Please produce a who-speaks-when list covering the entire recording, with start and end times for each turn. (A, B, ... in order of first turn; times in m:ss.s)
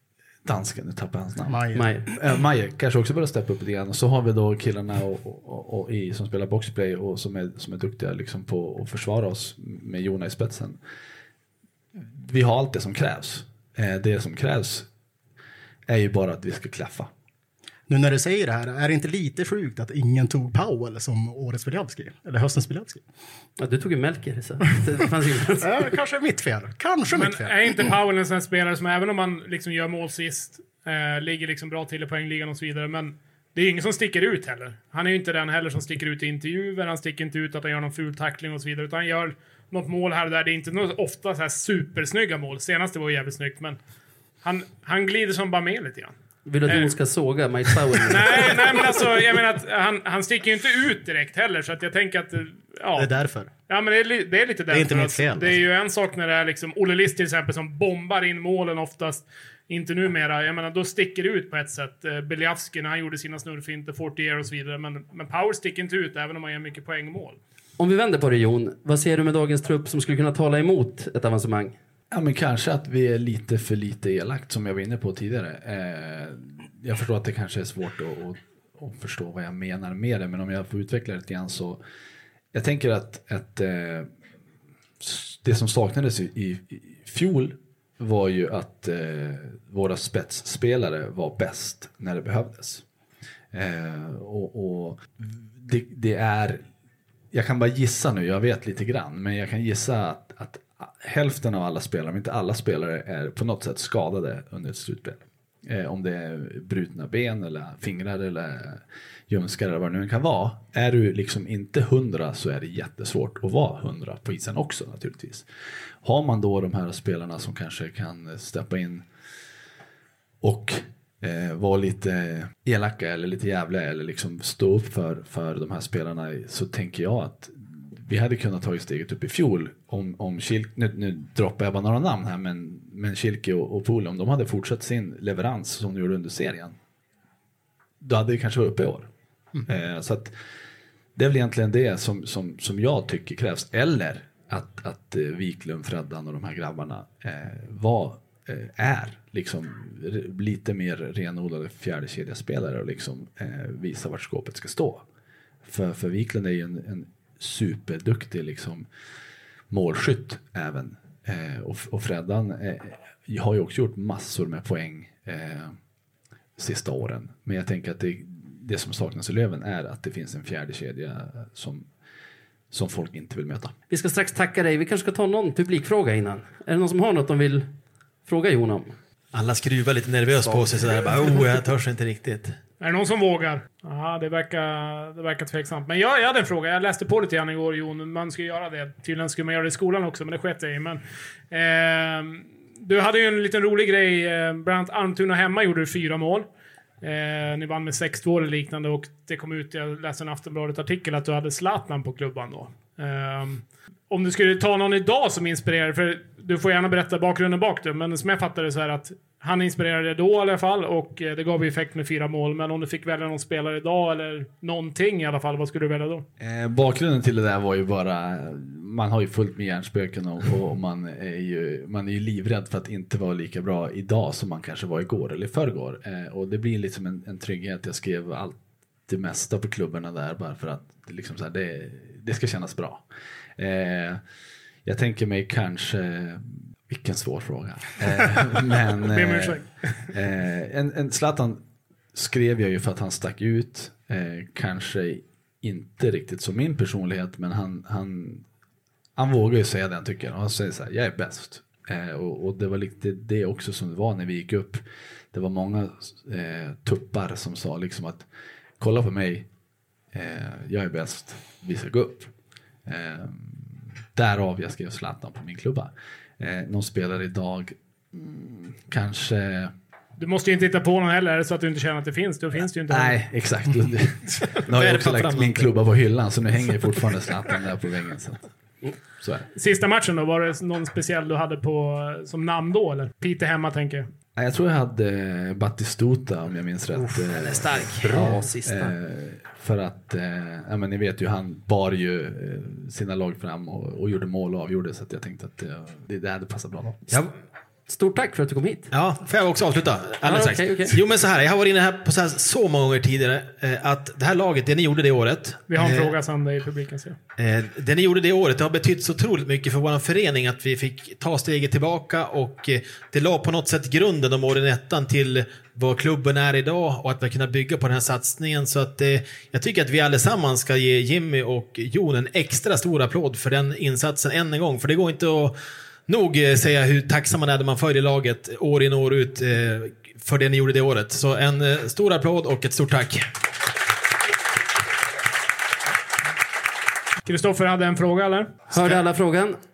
0:00.4-0:10.8 A
0:01.5-0:01.9 B
0:01.8-0:02.1 C
0:11.9-0:14.9 A
0:15.9-0:17.1 A
0:17.9-0:23.0 B
0:23.6-0:25.7 C
0:25.6-0:27.9 B
0:27.2-0:43.8 D
0:44.4-0:46.1 D
0:46.5-0:48.6 C
0:46.7-0:46.9 D
0:48.1-0:53.1 D
0:53.0-0:53.5 B
0:53.7-1:07.4 D
0:54.7-0:55.6 B
1:07.8-1:11.8 C
1:12.1-1:21.8 A
1:22.5-1:24.1 A
1:25.0-1:32.8 A
1:33.5-1:36.6 A
1:37.3-1:55.5 A
1:56.0-1:59.0 A
2:00.4-2:16.8 A
2:18.0-2:19.1 A
2:19.7-2:20.3 A
2:21.2-2:35.0 A
2:35.6-2:38.9 A
2:39.7-2:45.8 A
2:46.6-2:51.9 A
2:52.7-2:53.7 A
2:53.9-2:57.7 C
2:58.3-2:59.0 C
2:59.3-3:02.6 E
3:00.4-3:00.7 C
3:02.8-3:16.5 D
3:17.0-3:36.2 D
3:36.4-3:53.0 A
3:53.6-3:54.2 A
3:54.8-4:01.6 A
3:59.1-4:00.1 D
4:02.1-4:08.4 A
4:09.2-4:18.3 A
4:18.8-4:19.5 A
4:20.1-4:22.3 A
4:22.9-4:29.7 A
4:30.2-4:33.2 D
4:32.9-4:38.5 A
4:34.4-4:35.7 E
4:39.2-4:39.5 A
4:39.5-4:44.1 D
4:44.4-4:57.1 A
4:47.0-4:48.9 E
4:48.1-4:48.5 C
4:57.9-4:58.9 C
4:58.9-5:06.1 E
5:00.2-5:01.0 C
5:05.7-5:07.2 D
5:07.4-5:25.6 E
5:26.1-5:33.3 E
5:37.2-5:38.9 D
5:38.7-5:39.6 C